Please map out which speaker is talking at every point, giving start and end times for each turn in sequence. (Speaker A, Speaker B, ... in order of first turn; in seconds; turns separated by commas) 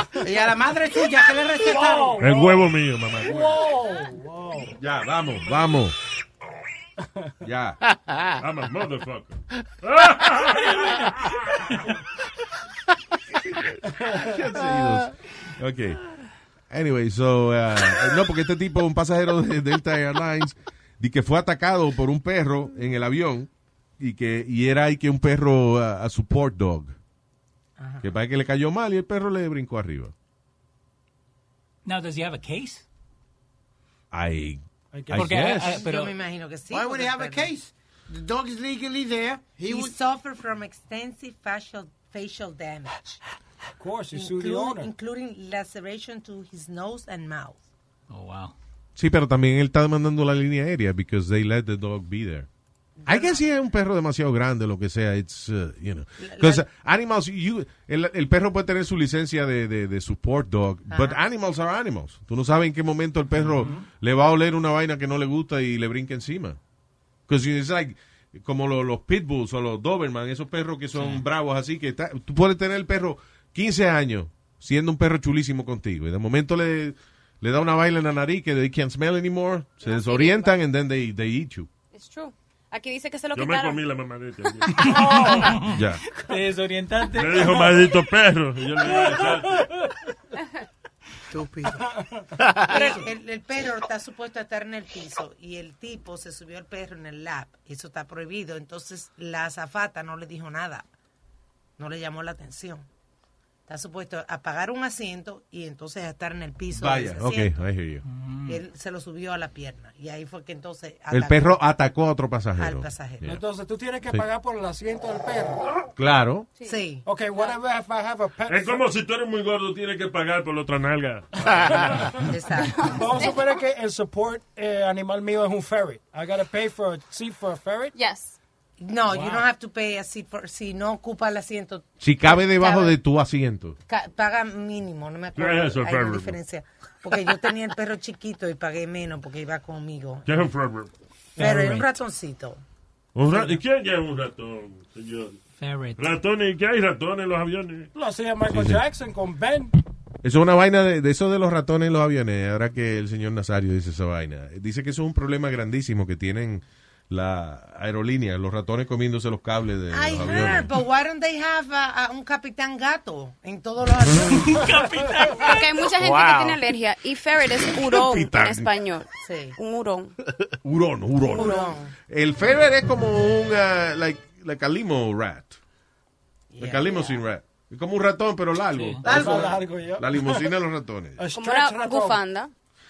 Speaker A: 0.2-2.2, Speaker B: 1.7-2.6, Speaker C: 2.2-3.3, Speaker D: 3.2-3.5, Speaker B: 3.2-4.7, Speaker D: 4.8-6.0, Speaker D: 7.4-7.8, Speaker C: 8.4-11.6, Speaker D: 14.1-16.0, Speaker D: 16.7-26.9, Speaker E: 27.8-28.1, Speaker D: 28.0-30.1, Speaker F: 31.9-32.9, Speaker D: 34.1-35.9, Speaker B: 34.9-35.3, Speaker F: 35.1-36.2, Speaker E: 35.7-37.5, Speaker A: 36.7-40.0, Speaker E: 39.7-43.0, Speaker B: 43.8-44.9, Speaker E: 44.1-47.6, Speaker F: 48.1-48.5, Speaker D: 49.0-52.5, Speaker E: 53.0-53.4, Speaker D: 53.1-66.6, Speaker E: 56.2-56.6, Speaker E: 60.9-61.2, Speaker F: 63.3-63.9, Speaker D: 67.3-81.7, Speaker F: 71.0-71.2, Speaker G: 79.8-80.5, Speaker G: 81.9-83.9, Speaker C: 83.3-85.0, Speaker B: 84.8-85.6, Speaker F: 84.8-87.7, Speaker D: 85.7-86.0, Speaker C: 87.1-89.7, Speaker A: 91.3-91.8, Speaker E: 92.7-100.8, Speaker E: 101.8-102.9, Speaker E: 103.7-107.6, Speaker D: 106.7-108.0, Speaker F: 108.0-108.6, Speaker E: 108.5-111.6, Speaker D: 111.1-113.4, Speaker E: 112.6-113.4, Speaker B: 113.2-115.6, Speaker D: 116.0-116.5, Speaker E: 116.7-117.1, Speaker B: 117.0-118.8, Speaker C: 118.5-122.1, Speaker B: 121.7-122.2, Speaker E: 122.3-122.9, Speaker G: 122.7-123.5, Speaker B: 122.9-127.9, Speaker G: 127.9-128.4, Speaker E: 128.8-133.0, Speaker B: 129.1-129.4, Speaker D: 132.0-133.8, Speaker E: 133.9-140.4, Speaker C: 135.3-136.4, Speaker C: 140.2-140.9, Speaker E: 141.4-142.6, Speaker F: 141.4-141.9, Speaker C: 143.2-145.4, Speaker F: 145.6-146.1, Speaker C: 146.0-147.9, Speaker B: 147.9-149.7, Speaker D: 148.5-148.8, Speaker D: 150.2-160.7, Speaker E: 159.9-164.9, Speaker F: 164.7-165.2, Speaker G: 165.4-170.1, Speaker D: 167.8-168.7, Speaker E: 169.2-169.6, Speaker D: 170.6-171.6, Speaker E: 171.3-171.9, Speaker G: 171.4-171.7, Speaker D: 172.1-175.6, Speaker E: 176.5-177.2, Speaker D: 176.6-181.2, Speaker F: 178.7-179.1, Speaker B: 179.0-180.4, Speaker A: 179.1-179.4, Speaker B: 181.2-182.2, Speaker G: 181.3-182.5